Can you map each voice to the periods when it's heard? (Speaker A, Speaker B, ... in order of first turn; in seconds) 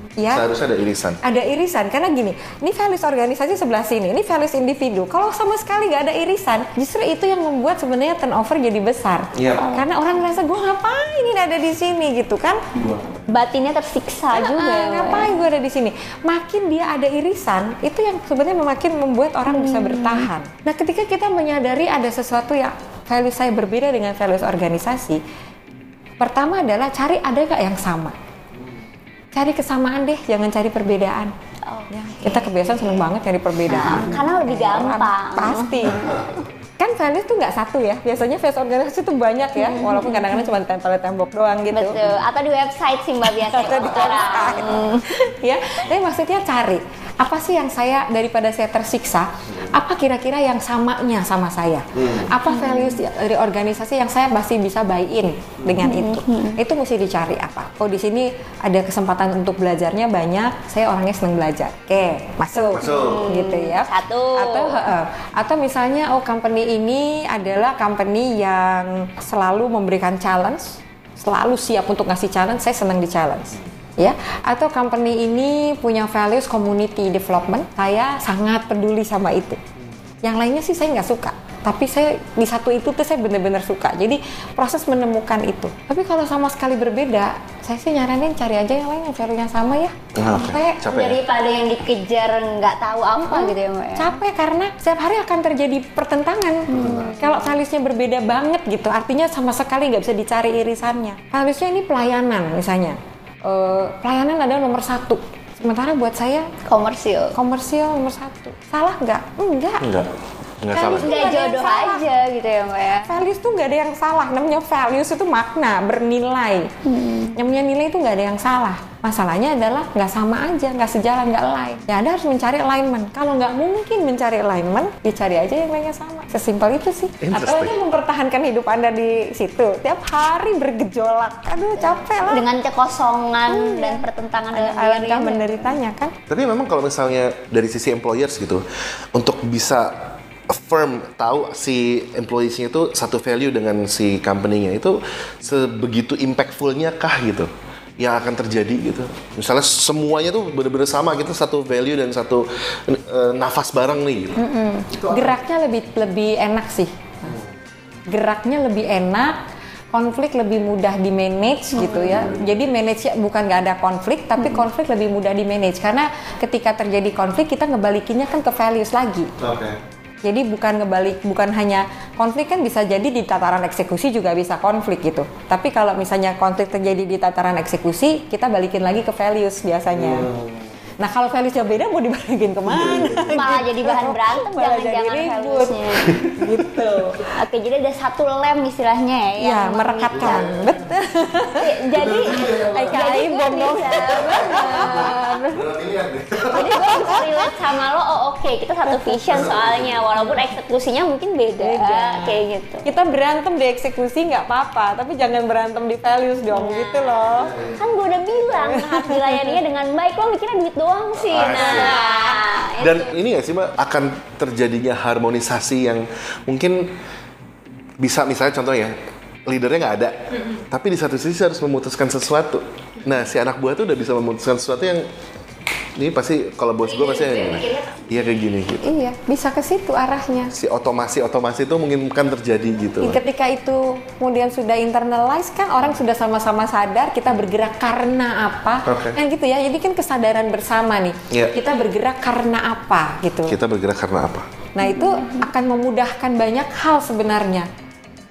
Speaker A: 0.2-0.5, 1.2-12.7, 14.3-25.2, 26.2-28.2, 29.3-31.3, 31.9-36.2, 36.8-42.0, 43.3-79.6, 80.2-90.8, 93.2-106.5, 107.3-109.9, 110.7-112.1, 113.1-116.7, 117.4-132.5, 133.5-136.1, 155.1-157.4, 158.1-159.4, 159.9-169.3, 170.2-180.3, 181.0-187.3, 189.4-191.8, 192.3-195.6, 196.5-197.6, 198.9-199.4, 201.6-207.7, 208.4-209.6, 211.5-212.2, 228.8-230.5, 233.0-243.6, 244.8-247.7
Speaker B: 0.3-1.2, 9.3-9.7, 12.8-13.2, 52.0-52.3, 55.6-55.9, 62.7-63.3, 90.2-91.2, 96.7-97.2, 109.8-110.1, 110.6-111.2, 127.2-127.8, 136.3-155.4, 162.0-162.7, 169.4-169.8, 179.9-180.7, 182.7-183.4, 190.1-190.8, 191.9-193.2, 193.9-197.2, 199.3-200.1, 211.2-212.1, 212.8-216.9, 218.0-218.9, 219.5-225.1, 226.0-228.9, 230.5-233.2, 238.9-239.2, 241.3-241.6, 243.5-244.5
Speaker C: 9.6-9.9, 13.3-15.3, 19.5-20.3, 31.6-33.1, 33.6-36.5, 39.6-40.5, 41.7-45.1, 52.5-53.0, 55.8-56.6, 62.6-64.9, 90.8-94.2, 96.7-97.6, 106.7-107.3, 111.0-113.2, 116.8-117.4, 132.2-135.7, 154.4-154.9, 161.7-162.3, 183.3-186.2, 187.3-190.4, 191.5-195.4, 196.5-202.9, 206.5-213.1, 227.1-228.0, 244.8-245.4